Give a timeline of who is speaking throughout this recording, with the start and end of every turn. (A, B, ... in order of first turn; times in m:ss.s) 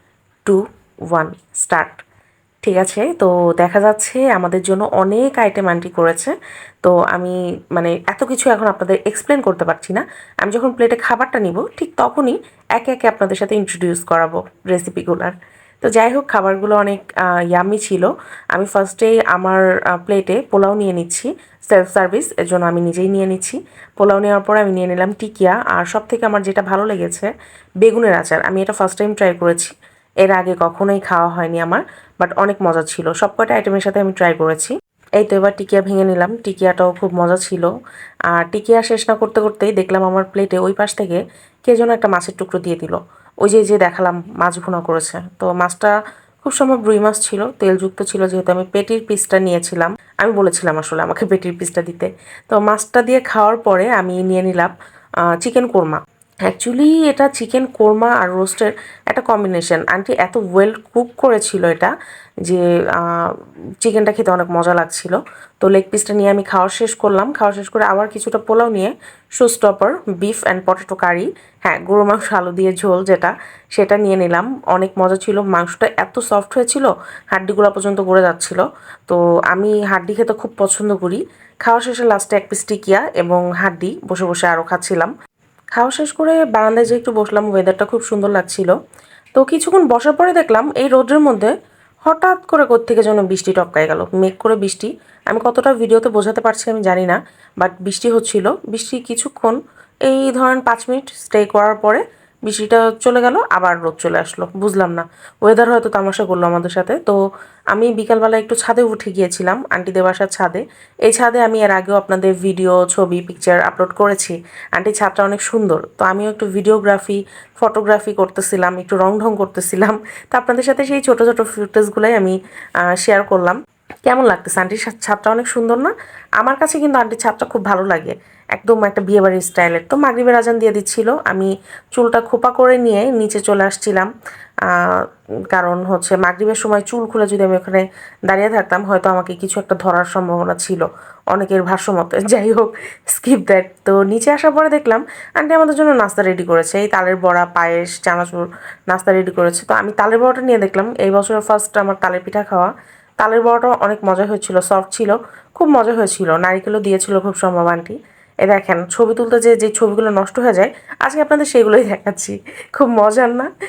0:00.4-0:02.0 A
0:02.6-0:29.7 A
0:30.2-0:37.7 A
0:38.3-0:54.7 A
0:55.4-1:01.9 A
1:02.4-1:25.1 A
1:25.8-1:28.7 A
1:29.4-1:31.5 A
1:32.0-1:47.2 A
1:47.7-2:02.4 A
2:02.9-2:14.1 A
2:14.7-2:43.5 A